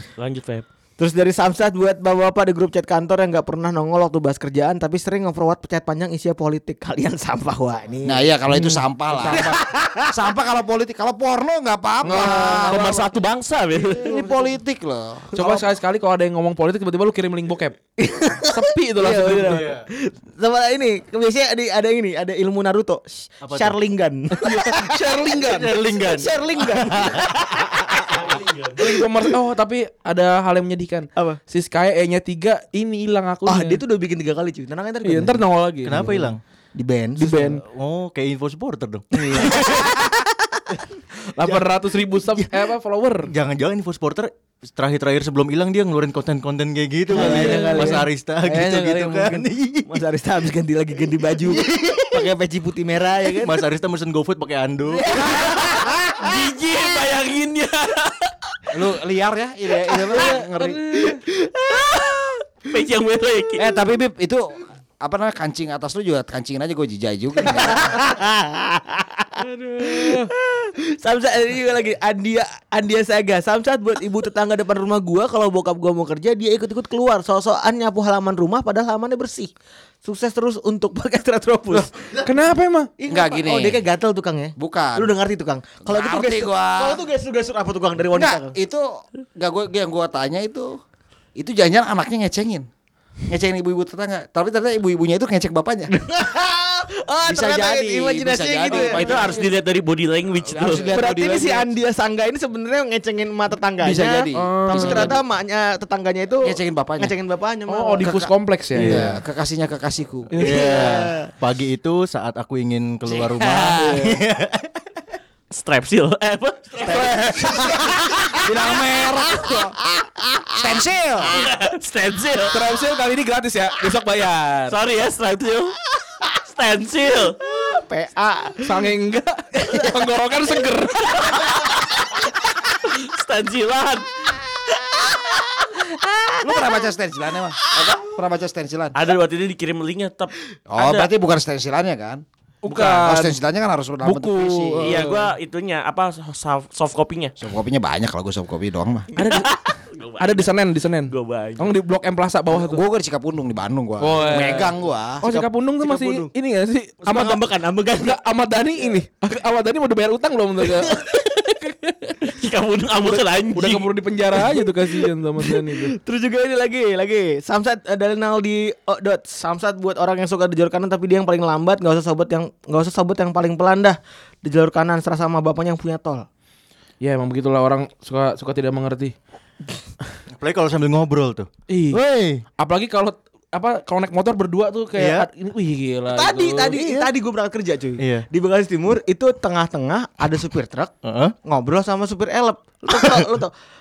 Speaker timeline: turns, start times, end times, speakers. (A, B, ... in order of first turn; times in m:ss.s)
0:00.2-0:00.6 A
0:01.0-0:08.3 B
0:08.0-0:13.1 C
0:08.6-0:09.6 D
0:09.3-0:10.1 B
0:12.0-0:12.5 D
0:12.1-0:14.1 A
0:12.4-0:13.0 B
0:13.8-0:15.6 C
0:14.0-0:14.5 B
0:15.3-0:17.8 D
0:18.0-0:25.0 B
0:18.5-0:19.6 D
0:19.4-0:19.8 E
0:23.4-0:23.8 E
0:24.3-0:25.7 D
0:25.4-0:28.9 E
0:26.0-0:28.2 B
0:28.7-0:33.8 D
0:33.4-0:35.4 B
0:35.0-0:36.3 D
0:35.8-0:36.4 E
0:36.7-0:37.6 B
0:37.2-0:37.6 D
0:37.6-0:39.9 E
0:39.1-0:40.1 B
0:39.5-0:39.9 D
0:41.3-0:43.3 D
0:43.3-0:50.0 E
0:47.1-0:48.1 B
0:47.1-0:49.4 D
0:49.8-0:53.6 B
0:51.4-0:52.3 E
0:53.3-0:55.2 E
0:55.0-0:55.9 B
0:55.2-0:58.3 A
0:58.7-1:00.8 C
1:00.1-1:01.2 D
1:01.0-1:02.4 B
1:02.7-1:03.7 A
1:03.6-1:08.0 C
1:07.5-1:19.5 B
1:09.4-1:10.3 D
1:20.0-1:22.2 B
1:22.2-1:22.9 D
1:23.0-1:28.5 B
1:23.1-1:23.8 C
1:24.6-1:25.1 C
1:25.8-1:27.0 C
1:28.1-1:30.8 C
1:31.4-1:32.7 C
1:33.3-1:35.9 C
1:36.0-1:39.3 B
1:37.2-1:39.4 C
1:38.7-1:40.9 A
1:40.4-1:41.7 C
1:40.7-1:48.0 B
1:43.8-1:45.2 C
1:44.3-1:45.2 D
1:46.4-1:47.1 C
1:47.7-1:49.0 D
1:48.0-1:48.3 C
1:48.7-1:49.2 E
1:48.8-1:50.3 C
1:50.4-1:50.6 D
1:50.4-1:54.7 E
1:50.4-1:51.3 B
1:53.2-1:54.1 C
1:55.5-1:57.2 A
1:56.8-1:59.8 C
1:56.8-1:57.7 D
1:58.4-1:59.4 D
2:00.6-2:01.4 C
2:01.3-2:02.6 A
2:02.5-2:04.8 D
2:04.7-2:05.8 A
2:06.3-2:07.4 A
2:07.4-2:08.8 B
2:08.6-2:11.5 D
2:11.0-2:14.3 A
2:15.0-2:16.6 B
2:16.4-2:19.0 C
2:18.9-2:21.1 A
2:20.7-2:25.1 C
2:22.6-2:23.4 D
2:24.0-2:25.3 D
2:24.8-2:27.3 A
2:27.4-2:29.1 C
2:29.2-2:29.6 D
2:29.2-2:30.5 A
2:30.2-2:32.8 D
2:31.1-2:31.7 A
2:32.5-2:35.2 C
2:34.0-2:41.0 D
2:35.3-2:36.2 B
2:36.0-2:36.3 E
2:37.0-2:38.2 B
2:40.9-2:41.2 A
2:41.6-2:42.2 D
2:42.2-2:43.9 A
2:43.0-2:45.9 D
2:45.4-2:56.3 B
2:57.0-2:59.1 D
3:00.3-3:02.4 E
3:01.7-3:02.0 D
3:02.6-3:06.8 D
3:04.9-3:05.3 E
3:06.1-3:10.9 B
3:06.7-3:07.1 E
3:08.0-3:08.2 E
3:11.0-3:11.3 E
3:11.4-3:13.5 B
3:12.9-3:13.2 E